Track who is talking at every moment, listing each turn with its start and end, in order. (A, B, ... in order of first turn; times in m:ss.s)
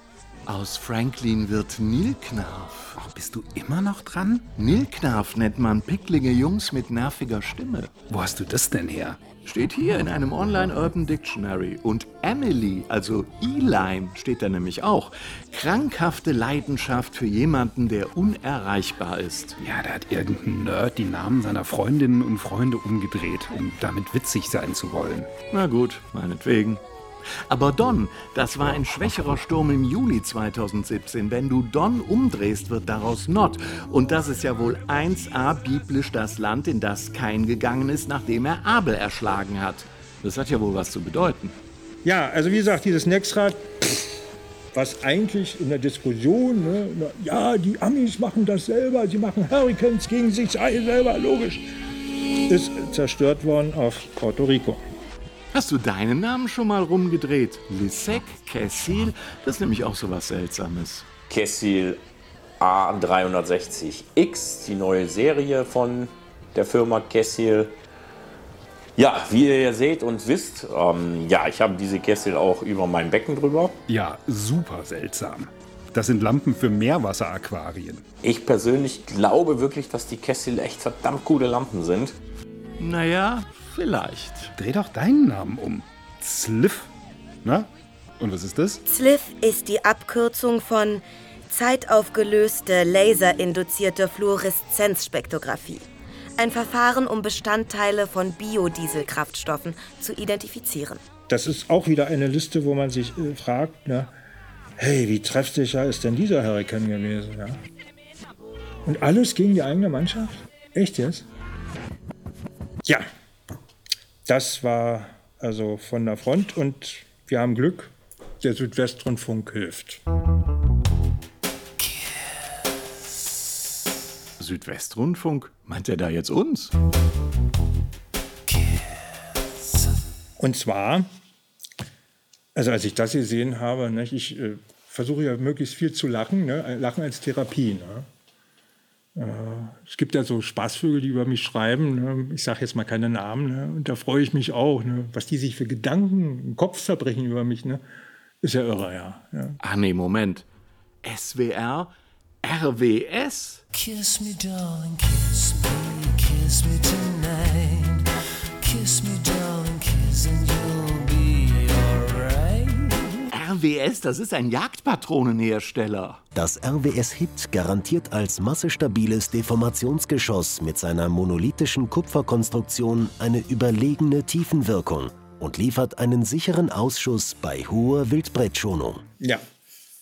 0:00.5-0:03.0 A
0:03.0-0:04.5 B
0:04.6-0:07.9 A
0:08.1-0:09.2 B
0:09.4-0:19.6 A
0:19.6-0:25.3 B
0:25.5-0:26.8 A
0:27.5-0:41.5 A
0:42.0-0:43.8 C
0:44.7-0:51.6 C
0:52.5-0:54.8 C
0:55.5-1:01.1 A
1:01.3-1:02.0 D
1:02.6-1:07.7 D
1:09.0-1:13.7 D
1:13.9-1:18.0 B
1:18.2-1:22.1 D
1:22.8-1:24.5 A
1:24.6-1:26.9 B
1:27.4-1:28.8 B
1:28.8-1:35.8 E
1:36.4-1:41.0 E
1:41.3-1:44.1 C
1:44.8-1:47.6 C
1:48.8-1:51.2 C
1:54.3-2:00.0 C
2:04.4-2:06.7 A
2:08.5-2:08.8 F
2:10.4-2:11.1 C
2:12.5-2:18.1 C
2:19.2-2:27.8 C
2:28.4-2:29.6 C
2:29.6-2:30.4 A
2:31.0-2:31.9 A
2:32.4-2:33.6 A
2:33.7-2:38.0 F
2:38.6-2:43.2 F
2:43.3-2:46.2 A
2:46.3-2:59.0 G